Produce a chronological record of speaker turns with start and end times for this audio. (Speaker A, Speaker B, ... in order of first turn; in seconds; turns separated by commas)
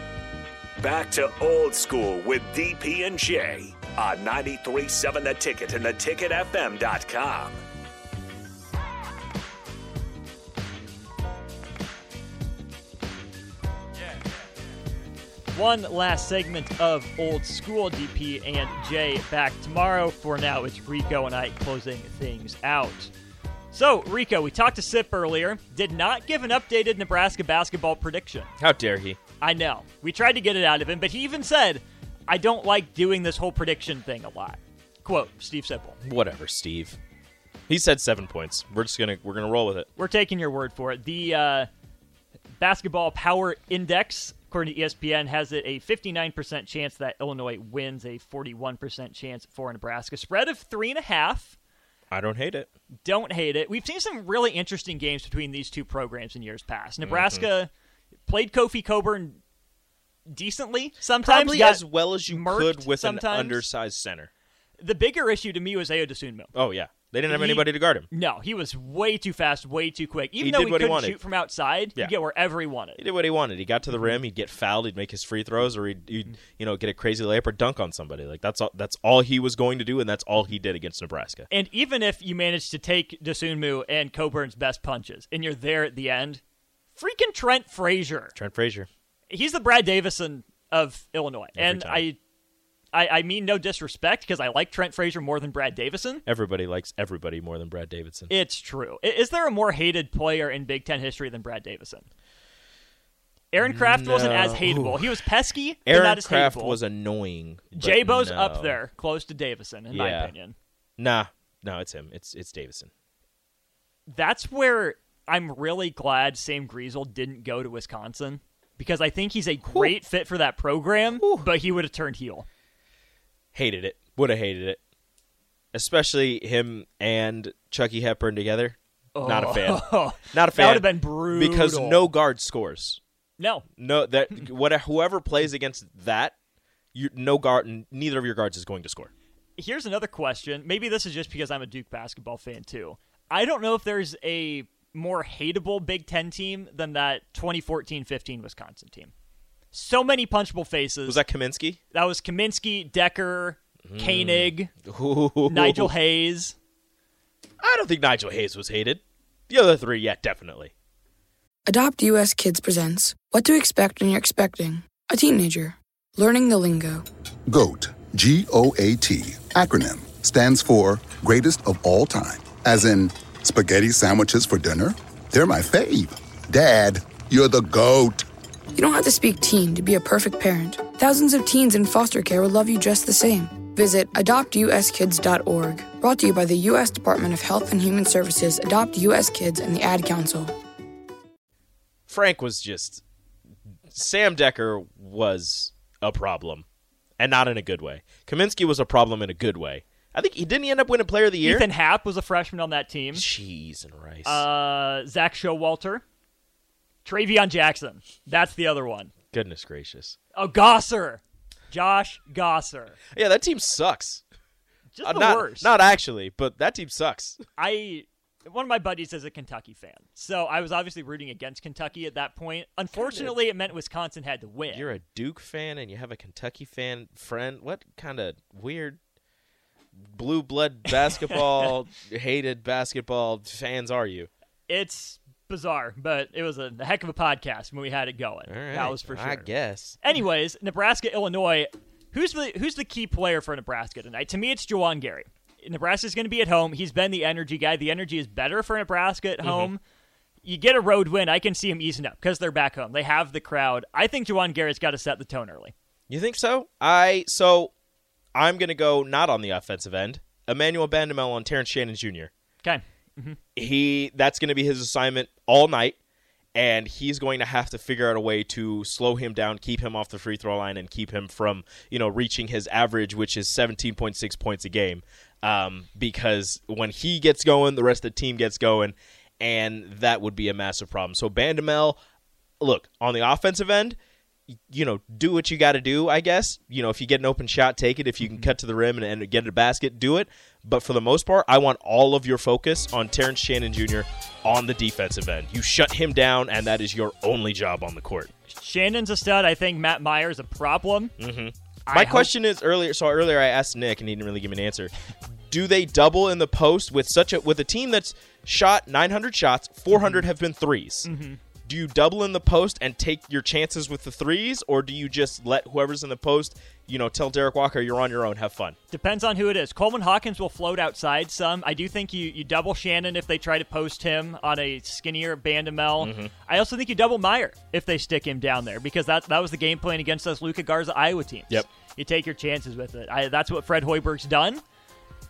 Speaker A: 0.8-7.6, Speaker B: 15.5-23.1, Speaker B: 23.7-28.5, Speaker C: 28.6-29.2, Speaker B: 29.4-36.0, Speaker C: 36.0-37.0, Speaker C: 37.7-39.9, Speaker B: 40.0-41.7, Speaker B: 42.6-51.6, Speaker C: 52.1-52.7, Speaker B: 53.0-57.7, Speaker C: 57.0-57.5, Speaker B: 58.3-59.4, Speaker B: 60.3-63.7, Speaker C: 61.2-64.3, Speaker B: 64.8-66.5, Speaker C: 66.5-68.1, Speaker B: 67.3-73.0, Speaker C: 70.4-71.2, Speaker C: 73.0-81.5, Speaker B: 73.9-74.2, Speaker B: 81.5-86.4, Speaker B: 87.0-88.3, Speaker C: 88.3-88.9, Speaker B: 89.3-92.2, Speaker C: 91.6-92.0, Speaker B: 92.9-96.2, Speaker C: 96.3-98.3, Speaker B: 98.3-102.1, Speaker B: 103.5-106.8, Speaker C: 103.6-105.0, Speaker C: 105.9-108.8, Speaker B: 107.8-110.6, Speaker C: 109.9-110.3, Speaker C: 111.0-112.9, Speaker B: 114.1-122.5, Speaker C: 121.2-121.5, Speaker C: 123.5-124.8, Speaker C: 125.7-133.0, Speaker B: 129.2-132.1, Speaker B: 133.4-133.7, Speaker C: 133.8-136.3, Speaker C: 136.9-139.1, Speaker B: 139.6-149.1, Speaker B: 149.7-151.2, Speaker C: 151.1-151.8, Speaker B: 151.9-154.7, Speaker C: 153.9-155.9, Speaker B: 155.5-156.6, Speaker C: 157.6-160.7, Speaker D: 161.7-167.1, Speaker E: 167.5-178.2, Speaker D: 178.8-190.5, Speaker C: 192.1-193.0, Speaker C: 193.9-196.7, Speaker C: 197.2-201.7, Speaker B: 201.4-203.2, Speaker C: 203.1-204.4, Speaker B: 204.2-206.0, Speaker B: 207.1-209.1, Speaker C: 209.3-210.2, Speaker B: 210.3-213.0, Speaker C: 213.1-214.2, Speaker B: 214.9-215.7, Speaker C: 215.0-217.4, Speaker B: 217.6-224.9, Speaker C: 222.9-223.4, Speaker C: 224.7-229.0, Speaker C: 230.1-234.3, Speaker B: 231.0-231.7, Speaker B: 234.7-239.5, Speaker C: 238.5-240.0, Speaker B: 240.0-249.8, Speaker C: 249.4-249.7, Speaker B: 250.4-255.7, Speaker C: 256.1-257.7, Speaker C: 258.4-262.3, Speaker B: 262.6-263.4, Speaker C: 263.6-266.0, Speaker C: 266.6-282.0, Speaker C: 282.6-284.0, Speaker C: 284.7-298.3, Speaker B: 288.2-288.5, Speaker B: 298.5-301.1, Speaker C: 301.2-304.9, Speaker B: 301.9-302.3, Speaker C: 305.5-311.1, Speaker B: 309.9-310.3, Speaker B: 311.1-311.4, Speaker C: 311.6-318.8, Speaker B: 318.9-334.6, Speaker C: 326.0-326.3